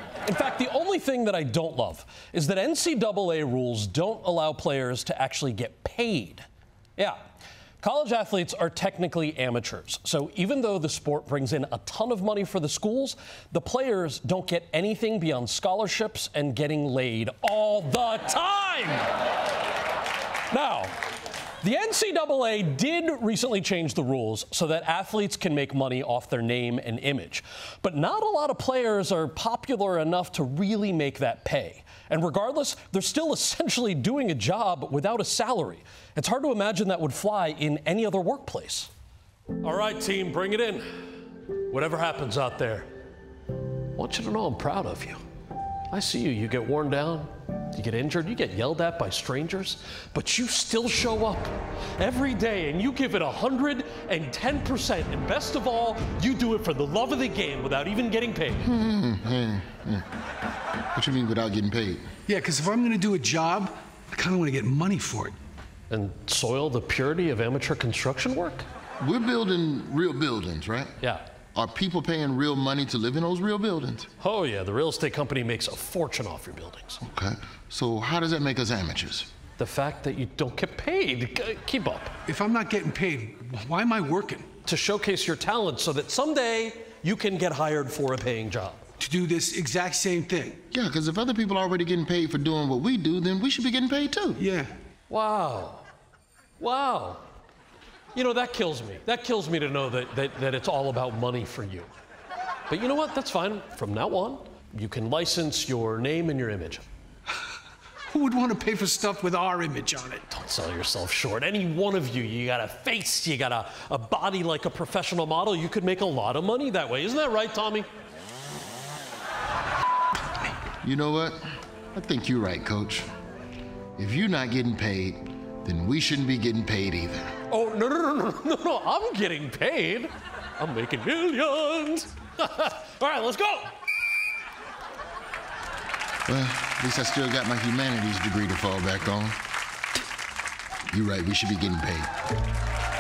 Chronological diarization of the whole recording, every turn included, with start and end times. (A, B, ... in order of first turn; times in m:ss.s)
0:00.2-0:06.5 A
0:07.8-0:19.1 A
0:20.5-0:21.0 A
0:21.6-0:38.9 A
0:39.6-0:42.9 A
0:43.9-0:45.2 A
0:45.9-0:58.7 A
0:58.6-1:00.0 B
1:01.0-1:02.0 B
1:02.3-1:05.4 C
1:05.9-1:08.7 A
1:09.0-1:11.0 B
1:11.6-1:14.1 B
1:14.2-1:17.0 A
1:17.0-1:19.3 B
1:19.6-1:22.1 A
1:22.3-1:24.5 C
1:24.6-1:28.8 A
1:29.0-1:30.6 C
1:30.7-1:34.4 B
1:34.4-1:34.7 C
1:35.1-1:35.8 A
1:36.6-1:37.2 A
1:38.2-1:41.9 A
1:42.7-1:46.8 A
1:48.1-1:50.3 C
1:50.3-1:57.9 A
2:00.8-2:01.4 B
2:02.0-2:03.1 B
2:04.0-2:07.3 B
2:07.5-2:13.8 A
2:16.3-2:19.4 B
2:20.9-2:22.1 B